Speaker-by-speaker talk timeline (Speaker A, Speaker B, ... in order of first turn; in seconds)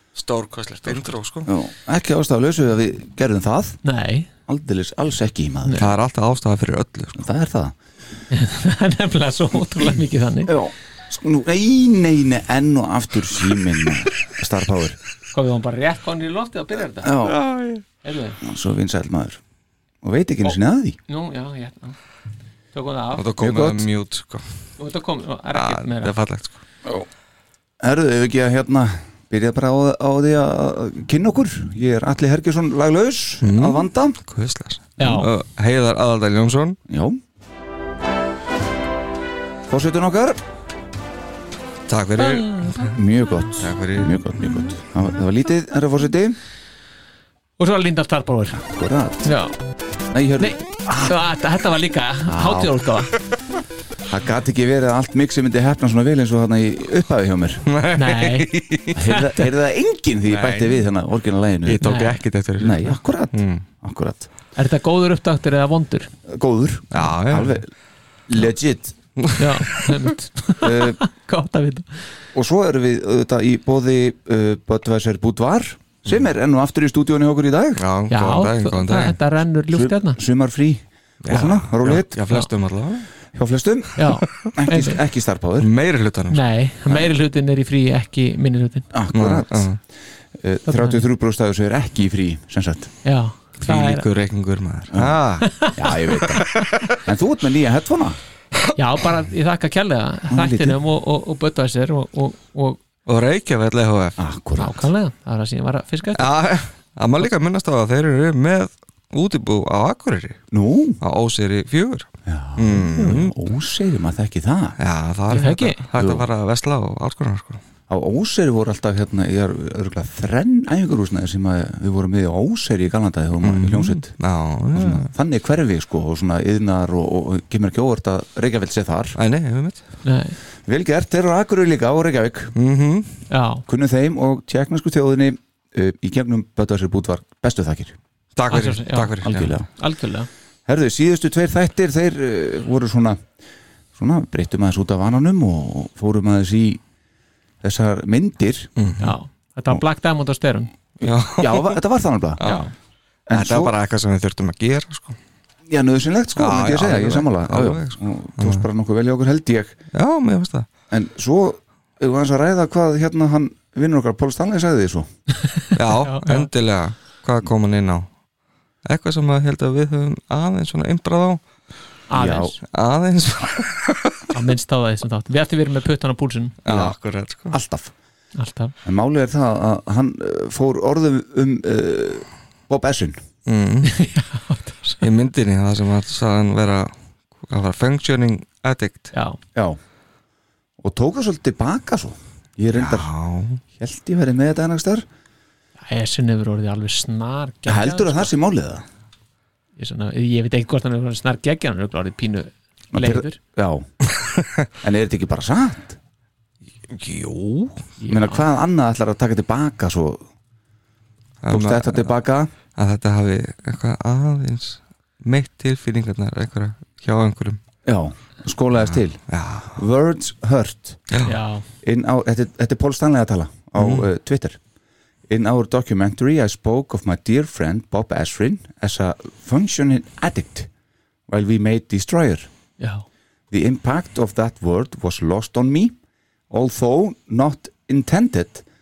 Speaker A: 0.1-1.5, 5.8-7.2, 17.2-17.8, 23.1-24.7, 25.5-26.6, 33.4-36.8, 41.9-42.9, 43.6-44.1, 57.7-59.0, 60.3-60.8, 61.6-63.6, 66.9-67.6, 69.2-69.9, 77.8-79.2, 81.2-83.1, 84.2-84.5, 85.6-86.4, 89.1-89.8, 93.6-95.7, 96.3-97.0, 103.0-104.2, 106.2-110.4, 111.0-113.3, 114.8-117.6, 123.4-125.1, 129.2-129.8, 132.6-133.2, 138.3-139.6, 148.8-149.2, 151.0-151.8, 152.4-152.7, 153.3-155.2, 156.3-158.6, 159.9-160.7, 165.7-168.1, 168.8-171.4, 172.6-174.3, 176.6-177.6, 183.4-183.9, 185.0-189.1, 192.7-193.6, 204.2-204.5, 206.9-207.9, 211.4-212.1, 212.8-217.6, 219.3-219.8, 223.8-224.1
Speaker B: 1.4-3.8, 4.5-5.9, 7.2-7.7, 10.4-15.0, 17.0-17.4, 18.4-19.4, 20.0-21.0, 23.4-23.9, 27.8-34.2, 36.9-37.2, 39.7-40.4, 42.9-46.4, 48.5-49.3, 50.1-51.2, 52.3-52.8, 54.1-57.7, 58.9-61.9, 62.6-64.3, 66.3-67.7, 68.3-69.0, 70.6-71.0, 72.3-77.8, 79.7-82.2, 83.3-85.7, 88.9-89.8, 90.3-92.9, 94.9-98.2, 100.3-100.8, 104.2-104.9, 110.5-111.0, 112.2-114.8, 115.9-116.2, 117.9-124.1, 124.7-129.2, 130.7-132.5, 133.7-138.0, 139.2-139.7, 140.7-143.2, 143.9-146.8, 147.6-148.7, 151.0-152.4, 153.3-153.7, 155.7-159.8, 160.9-165.1, 172.1-172.6, 176.7-177.0, 177.5-177.9, 178.8-183.2, 190.8-193.1, 193.7-195.1, 197.7-198.8, 202.9-203.9, 204.8-206.0, 208.1-210.2, 211.5-212.5, 217.8-219.2, 219.7-221.0, 221.8-224.6, 225.3-230.7, 231.3-232.5, 233.5-235.9, 236.5-238.6
Speaker C: 3.8-4.3, 8.3-10.6, 15.3-17.1, 18.0-18.4, 20.4-22.0, 22.7-23.2, 24.8-26.1, 35.0-35.3, 42.2-42.9, 47.6-48.6, 49.2-49.5, 50.4-53.1, 58.0-59.2, 61.8-62.2, 64.5-66.1, 69.4-72.1, 78.1-80.2, 84.0-85.0, 86.3-88.8, 90.7-91.0, 93.0-94.0, 95.4-95.8, 98.8-102.8, 104.6-106.3, 115.3-115.8, 130.0-130.4, 133.3-133.6, 138.5-140.3, 149.0-150.7, 152.4-152.7, 165.4-166.5, 172.1-172.6, 174.3-176.6, 178.4-178.7, 183.8-185.1, 189.1-189.4, 195.8-198.3, 199.8-203.4, 208.0-208.4, 221.2-221.6, 232.8-233.1